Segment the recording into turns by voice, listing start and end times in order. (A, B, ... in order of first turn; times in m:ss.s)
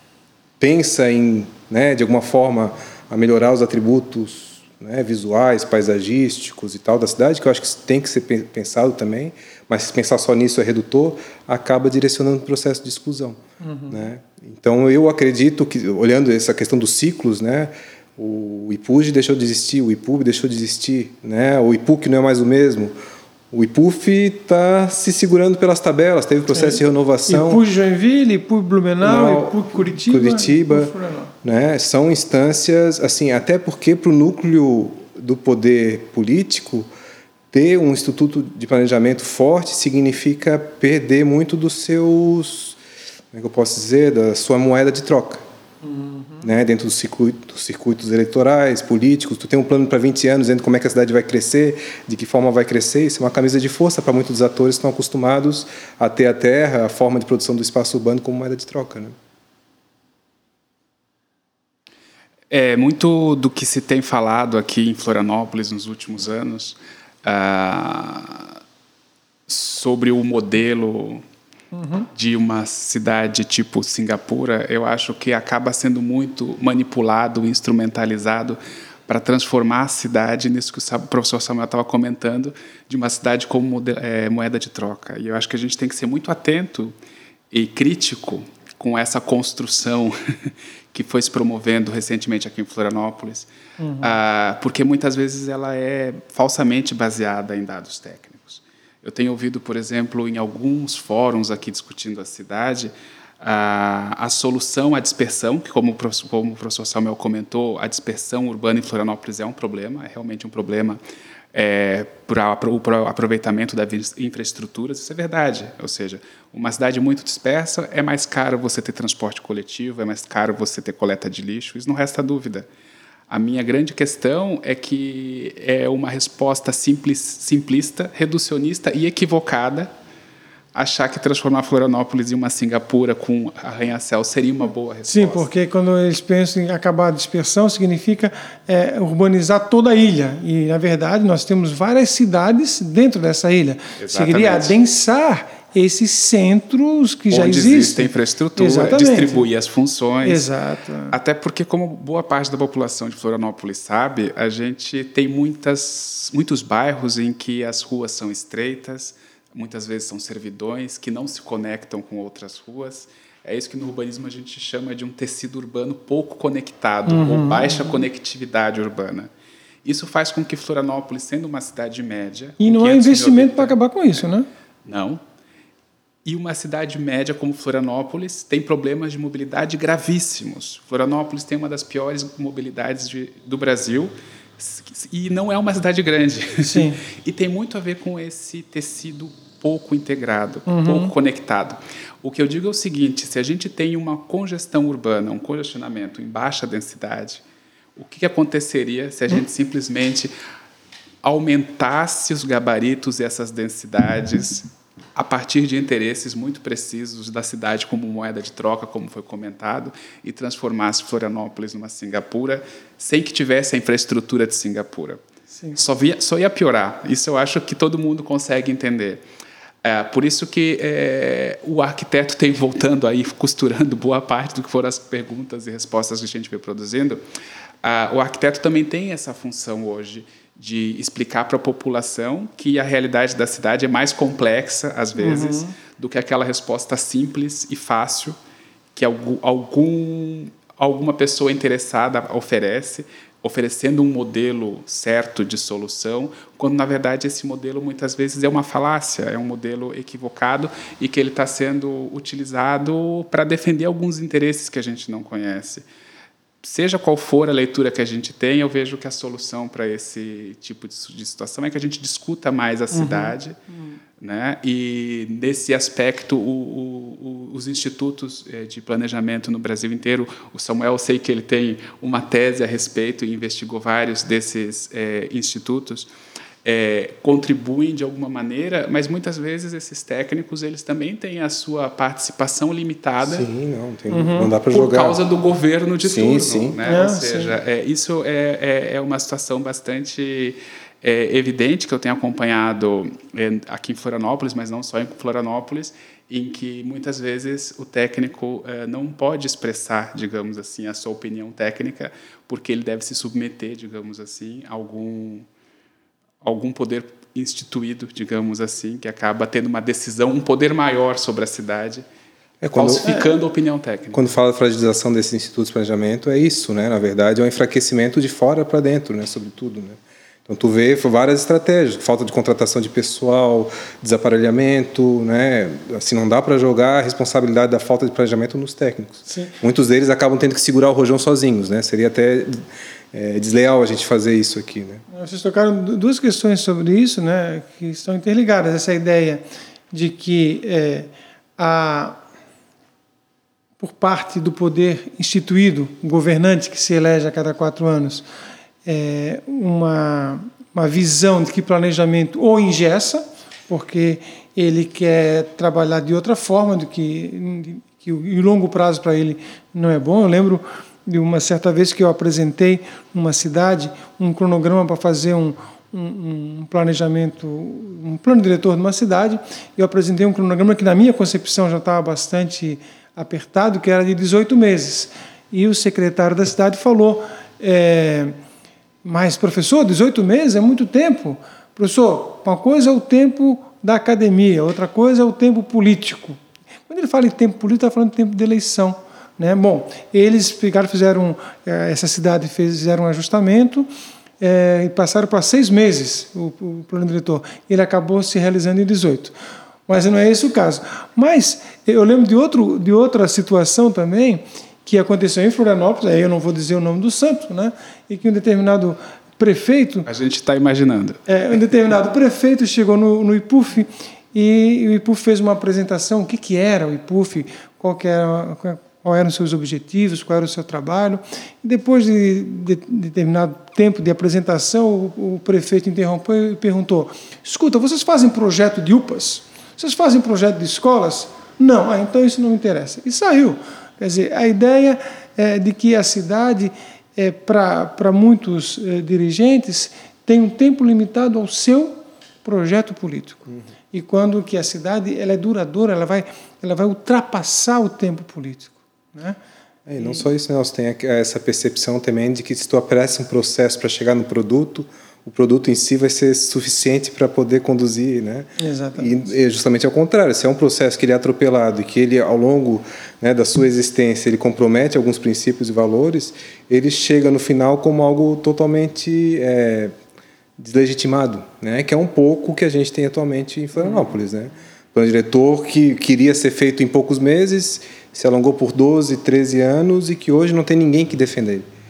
0:00.6-0:22.9 A
0:13.6-0:14.0 B
0:23.5-0:27.6 A
0:26.5-0:31.3 B
0:29.0-0:30.9 A
0:31.4-0:36.9 A
0:37.5-0:42.8 A
0:43.3-0:45.4 A
0:45.8-0:46.4 B
0:46.4-0:59.1 A
1:02.5-1:08.6 C
1:09.5-1:11.2 C
1:11.7-1:12.1 B
1:12.1-1:27.0 C
1:27.5-1:33.5 C
1:33.8-1:34.1 B
1:34.0-1:51.0 C
1:51.5-2:02.7 C
2:03.3-2:09.9 C
2:10.7-2:15.5 C
2:15.1-2:29.4 B
2:24.0-2:24.8 C
2:27.3-2:30.5 C
2:30.2-2:31.2 B
2:31.1-2:49.3 C
2:47.1-2:48.0 B
2:49.8-2:53.8 C
2:52.6-2:54.5 B
2:54.8-2:55.2 C
2:56.2-3:17.4 C
3:06.6-3:07.0 B
3:10.7-3:11.1 B
3:18.0-3:20.3 C
3:21.2-3:35.2 C
3:35.7-3:39.2 C
3:39.8-3:47.2 C
3:47.8-3:58.4 C
3:55.2-3:55.8 B
3:59.0-4:15.9 C
4:16.6-4:23.6 C
4:22.9-4:24.0 B
4:24.2-4:36.1 C
4:36.6-4:43.5 C
4:43.2-4:45.2 A
4:44.1-4:44.5 B
4:44.7-5:05.5 C
4:46.0-4:46.8 A
4:46.9-4:47.5 B
5:06.4-5:12.0 C
5:12.6-5:13.1 A
5:12.7-5:14.2 C
5:14.1-5:32.6 A
5:29.3-5:29.6 B
5:33.1-5:35.0 A
5:35.1-5:42.2 B
5:43.8-5:48.3 B
5:48.8-6:18.4 B
6:19.0-6:33.9 B
6:34.4-6:39.4 B
6:39.9-6:50.1 B
6:50.1-6:51.2 C
6:51.3-7:29.4 B
7:29.9-7:49.9 A
7:30.0-7:30.2 B
7:38.6-7:39.3 B
7:50.6-8:01.7 A